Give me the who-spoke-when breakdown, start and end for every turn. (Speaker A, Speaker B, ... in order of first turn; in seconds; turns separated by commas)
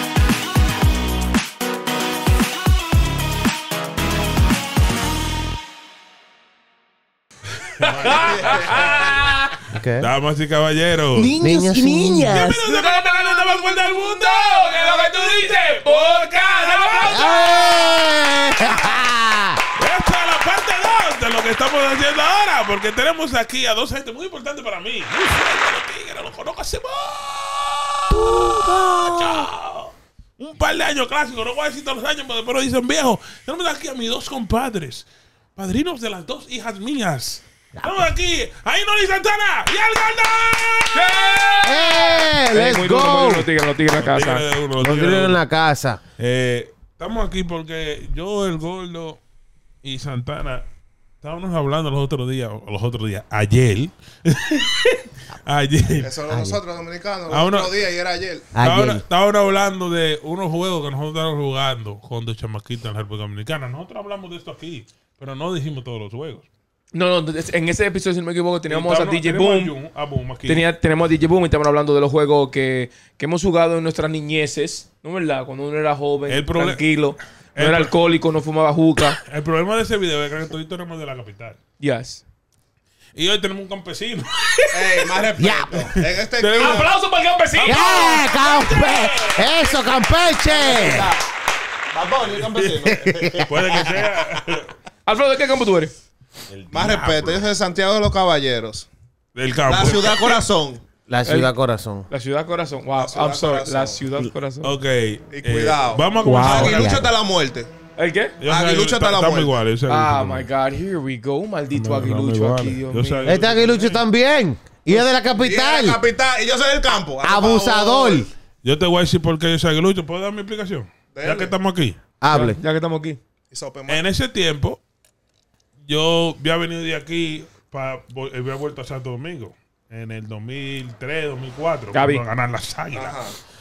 Speaker A: 7.8-9.3, Speaker B: 7.8-9.6, Speaker C: 8.1-9.1, Speaker D: 9.7-10.1, Speaker A: 10.0-11.3, Speaker B: 11.1-18.7, Speaker D: 11.4-12.4, Speaker A: 12.3-17.5, Speaker D: 17.1-19.6, Speaker A: 19.8-41.7, Speaker D: 28.1-29.5, Speaker B: 40.9-44.5, Speaker D: 41.6-43.5, Speaker A: 43.9-45.4, Speaker D: 44.8-46.0, Speaker A: 46.2-49.2, Speaker A: 49.8-50.6, Speaker A: 51.2-56.1, Speaker C: 56.0-58.5, Speaker D: 56.3-56.6, Speaker A: 57.3-57.7, Speaker D: 58.5-59.0, Speaker A: 58.6-66.5, Speaker B: 66.9-69.7, Speaker A: 68.7-70.6, Speaker B: 70.5-79.2, Speaker A: 76.3-76.8, Speaker A: 77.5-77.9, Speaker A: 79.2-81.6, Speaker B: 81.8-82.2, Speaker A: 83.1-84.3, Speaker B: 84.5-85.0, Speaker C: 84.7-86.9, Speaker D: 85.4-85.9, Speaker A: 86.4-86.8, Speaker B: 86.5-88.3, Speaker D: 87.6-91.1, Speaker A: 87.7-89.5, Speaker C: 89.4-89.8, Speaker C: 90.4-91.2, Speaker C: 91.9-94.2, Speaker A: 92.3-92.9, Speaker D: 92.8-93.8, Speaker A: 93.4-94.7, Speaker B: 95.0-95.9, Speaker A: 96.5-97.5, Speaker C: 96.7-98.9, Speaker A: 99.3-100.4, Speaker C: 99.7-100.8, Speaker D: 101.1-102.1, Speaker B: 101.2-101.5, Speaker B: 102.1-104.7, Speaker C: 103.0-104.0, Speaker A: 104.6-107.0, Speaker C: 105.3-107.7, Speaker B: 106.2-106.8, Speaker D: 106.4-107.1, Speaker B: 108.0-108.4, Speaker A: 108.4-110.5, Speaker C: 108.5-109.6, Speaker B: 109.9-113.3, Speaker A: 111.7-113.8, Speaker D: 113.2-116.0, Speaker C: 113.5-113.9, Speaker C: 114.9-118.3, Speaker D: 117.2-118.3, Speaker A: 118.6-122.0, Speaker C: 121.1-121.5, Speaker D: 122.2-122.6, Speaker B: 122.3-123.2, Speaker C: 123.5-124.0, Speaker A: 123.9-124.8, Speaker A: 125.8-133.2, Speaker B: 131.9-132.2, Speaker C: 132.9-133.3